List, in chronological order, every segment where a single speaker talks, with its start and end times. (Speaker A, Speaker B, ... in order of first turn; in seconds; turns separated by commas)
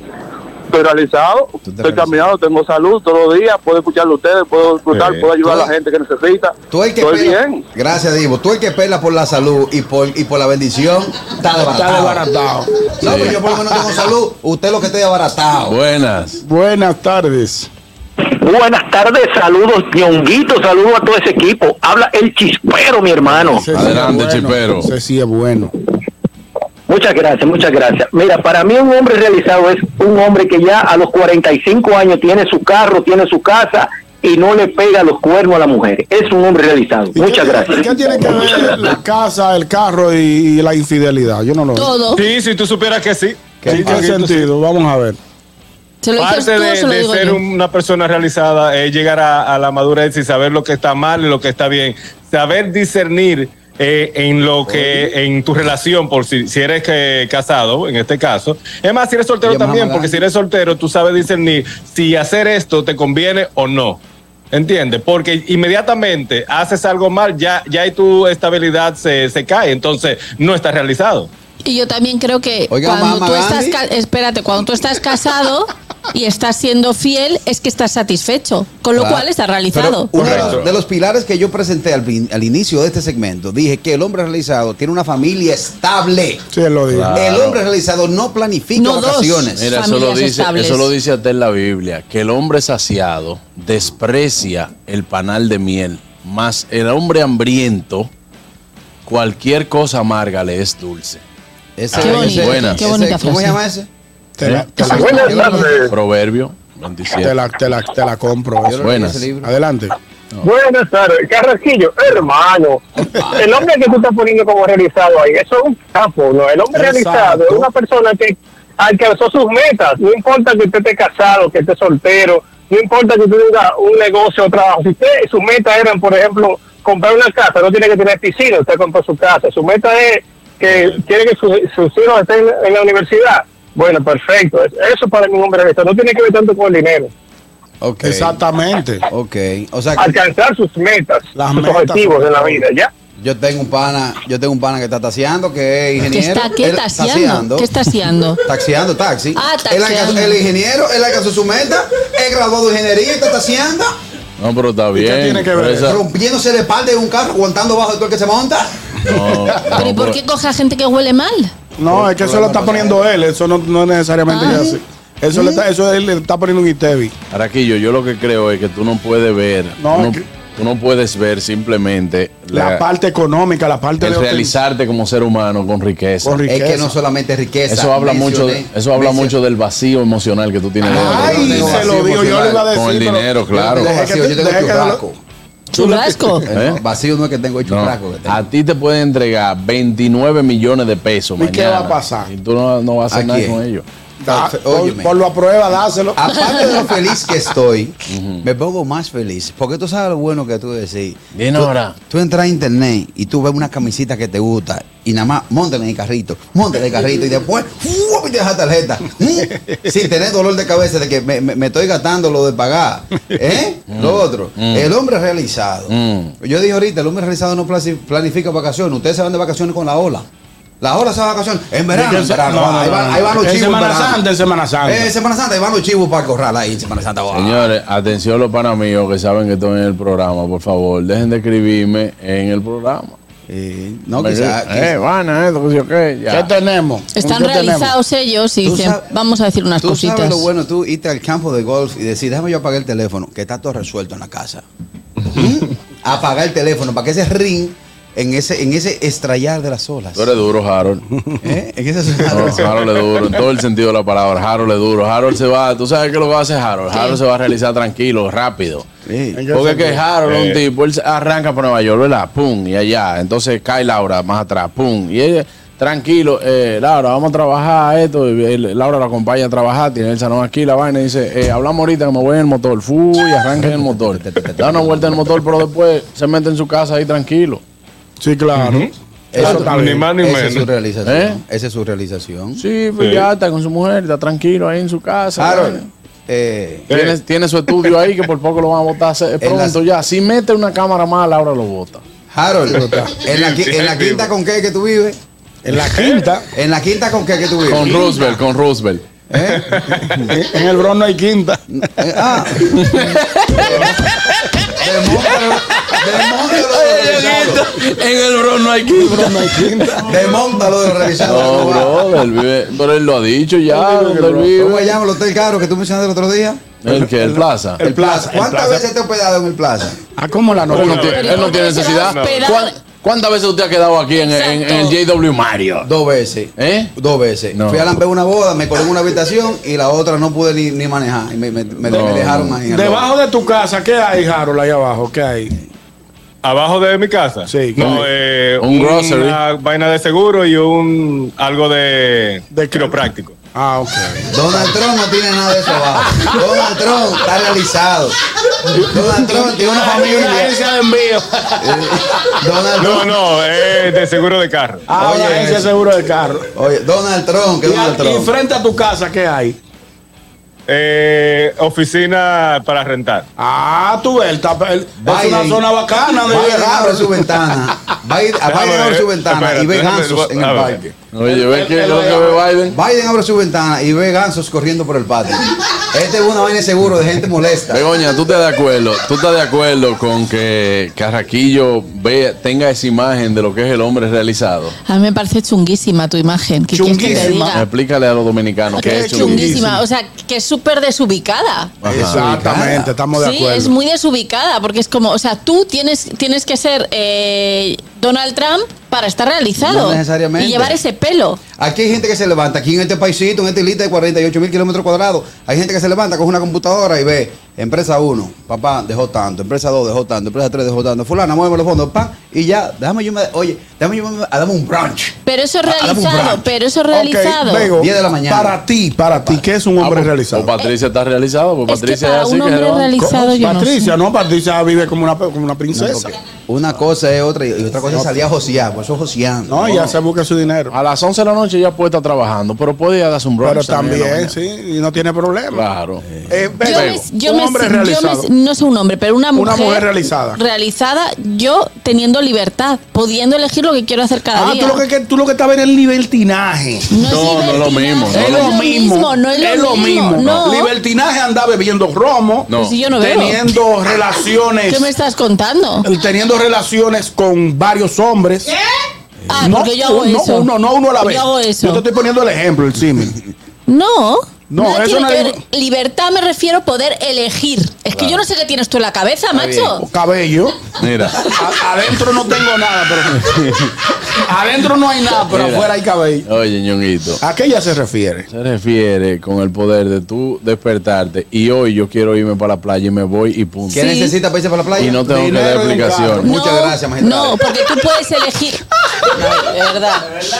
Speaker A: 0.7-7.6, Speaker B: 1.7-2.1, Speaker C: 4.9-5.3, Speaker B: 6.7-12.3, Speaker D: 11.7-12.7, Speaker B: 13.0-15.8, Speaker E: 13.0-13.4, Speaker E: 15.7-16.4, Speaker D: 16.4-17.7, Speaker F: 18.2-23.7, Speaker D: 23.2-25.7, Speaker E: 23.7-24.9, Speaker F: 26.9-38.8, Speaker D: 37.1-41.9, Speaker G: 41.7-42.2, Speaker C: 42.1-44.5, Speaker B: 43.6-44.1, Speaker D: 43.7-45.2, Speaker G: 46.0-47.4, Speaker C: 46.2-64.0, Speaker B: 54.6-55.1, Speaker B: 59.4-60.2, Speaker C: 64.5-71.3, Speaker G: 71.6-80.2, Speaker B: 72.7-73.8, Speaker B: 78.9-86.4, Speaker D: 80.1-80.6, Speaker E: 80.2-80.7, Speaker D: 86.5-87.2, Speaker E: 86.9-87.6, Speaker B: 87.1-89.7, Speaker G: 88.8-90.9, Speaker E: 89.5-98.1, Speaker E: 99.0-101.2, Speaker B: 101.8-103.9, Speaker E: 102.0-102.8, Speaker G: 102.0-103.6, Speaker D: 104.4-105.5, Speaker E: 104.4-105.0, Speaker G: 104.8-105.6, Speaker B: 105.0-105.8, Speaker H: 105.0-105.9, Speaker E: 105.9-107.3, Speaker D: 107.2-108.9, Speaker B: 108.6-109.5, Speaker E: 108.8-109.2, Speaker D: 109.4-109.9, Speaker H: 110.4-137.1, Speaker D: 116.7-117.7, Speaker B: 137.8-138.4, Speaker D: 138.0-139.0, Speaker B: 139.1-140.2, Speaker H: 140.0-142.9, Speaker D: 141.3-142.6, Speaker B: 143.2-147.7, Speaker G: 146.1-148.4, Speaker B: 148.4-153.9, Speaker G: 149.3-150.4, Speaker E: 154.4-156.0, Speaker D: 154.9-155.9, Speaker B: 155.8-158.7, Speaker E: 159.1-160.2, Speaker G: 159.7-161.5, Speaker D: 161.8-167.1, Speaker B: 161.9-163.0, Speaker G: 164.3-164.7, Speaker E: 167.3-172.8, Speaker D: 169.8-170.2, Speaker D: 172.5-174.6, Speaker E: 174.0-176.4, Speaker D: 176.2-176.9, Speaker B: 176.5-179.3, Speaker E: 177.7-183.9, Speaker B: 180.8-182.6, Speaker D: 180.8-185.0, Speaker B: 183.5-185.2, Speaker G: 185.7-186.4, Speaker D: 185.8-186.4, Speaker B: 186.5-188.4, Speaker E: 186.5-186.8, Speaker E: 187.7-193.8, Speaker D: 191.4-192.3, Speaker B: 193.1-193.6, Speaker D: 194.2-196.2, Speaker B: 194.3-195.1, Speaker B: 196.2-220.2, Speaker E: 198.1-198.4, Speaker E: 201.3-201.9, Speaker E: 213.9-214.9, Speaker E: 215.9-216.3, Speaker B: 220.8-224.2, Speaker D: 221.9-225.1, Speaker B: 224.8-227.7, Speaker E: 227.3-233.2, Speaker B: 233.5-234.9, Speaker E: 234.2-236.5, Speaker D: 236.3-237.9, Speaker G: 237.1-240.5, Speaker B: 238.6-239.1, Speaker B: 239.8-244.6, Speaker B: 245.3-250.3, Speaker E: 250.2-251.0, Speaker B: 251.4-252.7, Speaker E: 252.3-258.9, Speaker G: 256.9-257.2, Speaker B: 259.1-259.4, Speaker D: 259.3-260.1, Speaker E: 259.5-277.6, Speaker C: 260.2-260.6, Speaker B: 273.6-275.3, Speaker D: 278.2-280.1, Speaker C: 278.6-280.6, Speaker B: 279.3-282.6, Speaker E: 281.1-281.4, Speaker E: 282.6-285.9, Speaker C: 283.0-283.2, Speaker B: 285.4-286.9, Speaker C: 286.9-287.1, Speaker E: 286.9-292.0, Speaker B: 289.4-289.8, Speaker B: 292.3-295.2, Speaker D: 292.7-293.1, Speaker C: 293.2-294.3, Speaker D: 295.6-296.5, Speaker C: 295.9-296.2, Speaker B: 296.5-298.1, Speaker E: 297.7-299.0, Speaker B: 299.3-299.7, Speaker D: 300.2-301.6, Speaker B: 301.7-304.0, Speaker E: 302.6-303.7, Speaker B: 304.8-307.7, Speaker E: 306.4-309.9, Speaker D: 308.9-310.1, Speaker B: 310.1-312.0, Speaker E: 311.2-315.0, Speaker D: 313.7-314.5, Speaker B: 314.5-316.7, Speaker E: 316.8-317.8, Speaker D: 316.9-318.8, Speaker B: 317.8-320.0, Speaker D: 320.1-321.4, Speaker C: 320.7-322.5, Speaker E: 320.7-325.9, Speaker G: 320.8-322.7, Speaker G: 324.3-325.0, Speaker B: 325.8-333.1, Speaker E: 326.6-326.9, Speaker E: 327.5-327.9, Speaker E: 331.9-332.6, Speaker D: 332.7-335.6, Speaker C: 336.4-343.3, Speaker D: 337.4-338.0, Speaker E: 337.8-338.0, Speaker E: 338.6-339.4, Speaker D: 342.5-343.0, Speaker D: 343.5-344.7, Speaker B: 344.3-348.2, Speaker B: 348.7-350.6, Speaker D: 349.3-351.9, Speaker B: 351.6-353.1, Speaker C: 352.8-354.9, Speaker D: 354.9-356.5, Speaker B: 355.0-355.7, Speaker B: 356.5-358.3, Speaker D: 357.6-359.6, Speaker C: 360.7-363.2, Speaker D: 363.4-367.2, Speaker B: 365.0-365.6, Speaker B: 366.2-370.8, Speaker C: 368.5-370.9, Speaker E: 371.1-372.8, Speaker D: 371.3-372.5, Speaker B: 372.7-377.8, Speaker E: 377.7-384.7, Speaker G: 384.9-387.6, Speaker D: 386.7-387.6, Speaker E: 387.5-389.6, Speaker D: 388.8-389.8, Speaker G: 388.8-391.7, Speaker E: 391.8-392.4, Speaker B: 391.9-392.9, Speaker D: 391.9-393.7, Speaker G: 393.2-401.4, Speaker B: 399.6-400.8, Speaker B: 401.6-416.5, Speaker G: 415.2-417.7, Speaker D: 416.9-420.5, Speaker B: 417.8-418.6, Speaker E: 419.8-422.9, Speaker G: 421.7-423.9, Speaker D: 423.0-426.1, Speaker B: 425.7-429.8, Speaker D: 429.5-430.8, Speaker E: 430.7-434.3, Speaker D: 433.4-435.7, Speaker E: 435.5-436.0, Speaker D: 436.3-438.3, Speaker E: 436.6-437.0, Speaker G: 436.6-444.8, Speaker D: 439.3-440.4, Speaker D: 444.3-446.9, Speaker G: 446.9-450.7, Speaker E: 447.0-448.6, Speaker D: 448.1-454.9, Speaker E: 452.5-452.9, Speaker G: 452.6-453.4, Speaker G: 454.7-455.8, Speaker D: 455.8-458.5, Speaker G: 459.3-460.5, Speaker D: 459.4-463.2, Speaker G: 461.0-461.8, Speaker G: 463.7-469.8, Speaker D: 464.5-465.4, Speaker E: 467.9-468.2, Speaker B: 469.3-469.7, Speaker D: 469.8-470.7, Speaker E: 470.8-471.4, Speaker D: 471.3-473.3, Speaker E: 473.2-473.6, Speaker D: 474.1-476.3, Speaker E: 475.3-475.7, Speaker E: 476.2-477.2, Speaker D: 477.2-478.3, Speaker E: 478.3-483.9, Speaker B: 483.7-485.1, Speaker E: 484.8-486.3, Speaker D: 484.9-486.2, Speaker B: 486.1-487.5, Speaker G: 486.2-488.6, Speaker G: 489.1-490.1